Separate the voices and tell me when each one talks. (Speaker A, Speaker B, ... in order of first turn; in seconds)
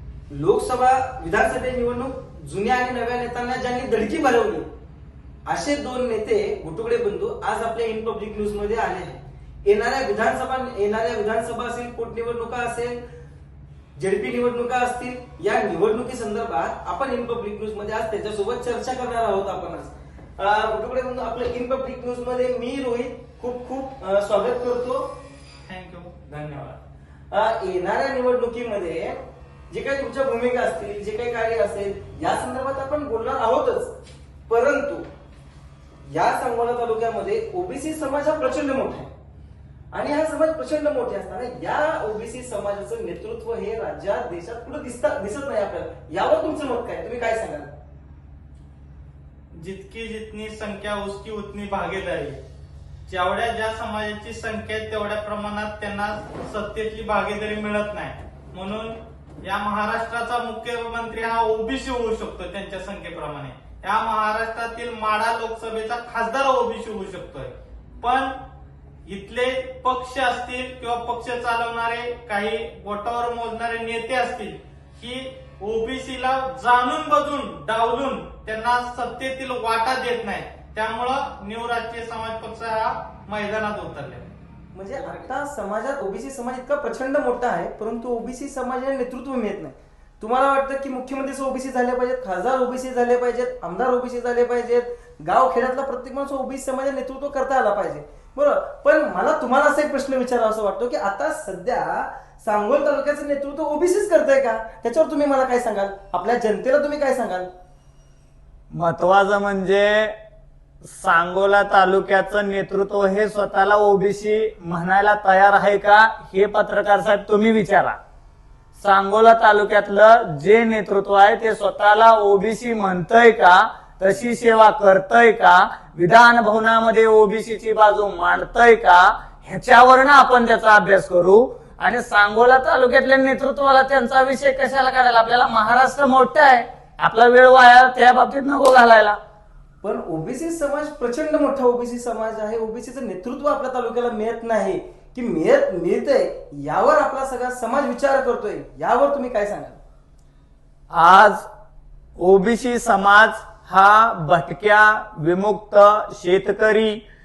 Speaker A: 0.3-4.7, 5.5-13.0, 14.0-25.0, 26.3-26.7, 27.3-29.2, 29.7-33.9, 34.5-35.0, 36.1-39.1, 39.9-47.7, 84.7-107.5, 139.8-149.8
Speaker B: 25.7-26.2, 49.5-52.4, 53.1-68.3, 69.0-84.3
Speaker C: 108.7-110.2, 110.8-118.0, 118.7-139.2, 150.9-151.5, 152.2-157.0